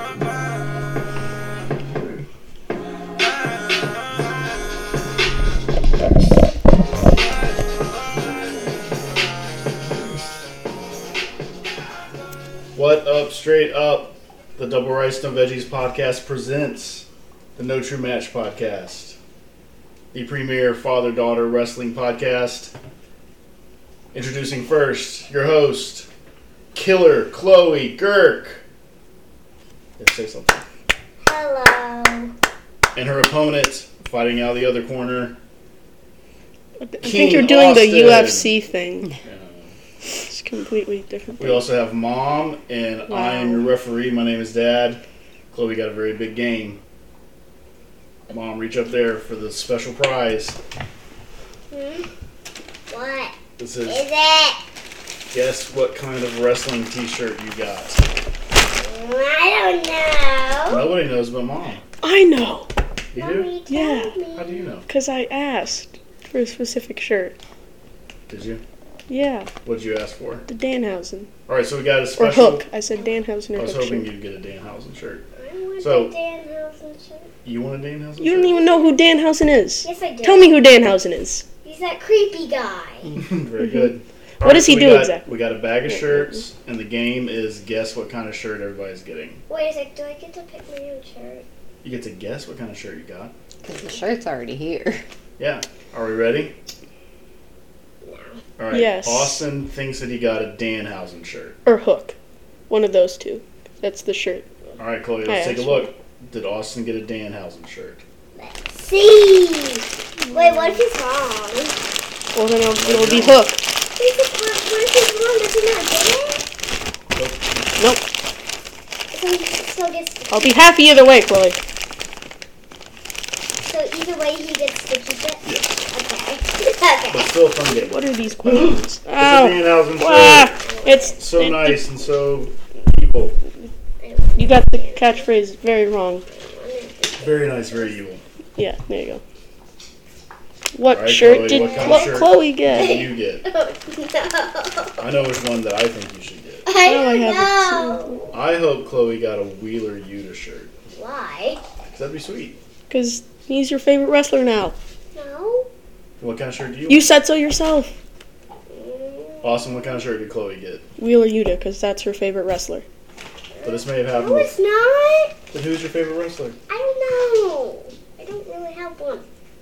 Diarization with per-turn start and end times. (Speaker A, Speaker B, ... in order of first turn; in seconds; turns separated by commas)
Speaker A: 12.8-19.2, Speaker A: 20.1-22.7, Speaker A: 24.1-26.1, Speaker A: 26.7-28.6, Speaker A: 30.0-30.6, Speaker B: 31.2-32.3, Speaker A: 33.0-35.4, Speaker C: 36.8-39.1, Speaker A: 37.0-38.5, Speaker A: 39.2-39.7, Speaker C: 40.3-41.7, Speaker A: 41.4-46.8, Speaker D: 43.1-43.6, Speaker A: 48.3-50.6, Speaker B: 51.7-52.1, Speaker B: 52.9-54.6, Speaker A: 53.6-54.0, Speaker A: 55.3-58.0, Speaker B: 58.7-60.9, Speaker A: 60.7-61.8, Speaker C: 62.0-62.7, Speaker A: 63.1-63.5, Speaker B: 63.1-64.7, Speaker C: 63.7-64.2, Speaker A: 64.3-64.9, Speaker C: 64.9-67.4, Speaker A: 68.3-68.6, Speaker C: 69.1-69.5, Speaker A: 69.6-70.5, Speaker C: 70.5-71.3, Speaker A: 71.5-72.6, Speaker C: 72.2-74.1, Speaker A: 73.6-75.2, Speaker B: 75.4-77.3, Speaker A: 75.8-76.1, Speaker A: 77.4-78.6, Speaker C: 78.2-81.5, Speaker B: 79.8-80.6, Speaker B: 81.6-83.1, Speaker A: 83.2-89.4, Speaker C: 84.4-85.3, Speaker C: 85.9-86.4, Speaker B: 89.5-91.5, Speaker A: 91.8-93.3, Speaker D: 93.6-95.0, Speaker A: 95.4-96.5, Speaker B: 98.0-98.3, Speaker A: 98.6-101.6, Speaker C: 98.7-99.4, Speaker C: 101.7-102.2, Speaker C: 102.7-104.5, Speaker A: 104.8-108.0, Speaker C: 105.2-105.9, Speaker B: 108.4-111.8, Speaker C: 110.2-110.8, Speaker C: 112.3-113.6, Speaker A: 112.8-113.4, Speaker B: 114.0-116.5, Speaker A: 117.2-117.7, Speaker C: 117.8-118.1, Speaker B: 119.1-120.6, Speaker C: 120.3-121.6, Speaker B: 123.6-127.4, Speaker A: 125.5-125.9, Speaker A: 127.1-130.6, Speaker C: 127.7-131.8, Speaker B: 130.6-131.2, Speaker A: 131.2-133.4, Speaker B: 134.0-135.3, Speaker C: 134.4-136.2, Speaker B: 136.3-138.0, Speaker A: 137.1-138.2, Speaker C: 138.6-139.2, Speaker C: 140.7-142.9, Speaker A: 140.9-143.5, Speaker B: 141.3-145.0, Speaker A: 145.0-146.7, Speaker B: 146.7-148.3, Speaker C: 146.8-148.2, Speaker A: 148.3-150.7, Speaker B: 150.9-151.6, Speaker A: 151.9-152.6, Speaker C: 152.9-154.8, Speaker B: 155.2-155.7, Speaker A: 156.2-157.1, Speaker C: 156.9-157.9, Speaker B: 158.7-159.8, Speaker A: 159.4-160.8, Speaker C: 161.0-162.8, Speaker B: 163.5-165.4, Speaker A: 163.6-164.5, Speaker A: 165.5-166.6, Speaker B: 166.7-169.2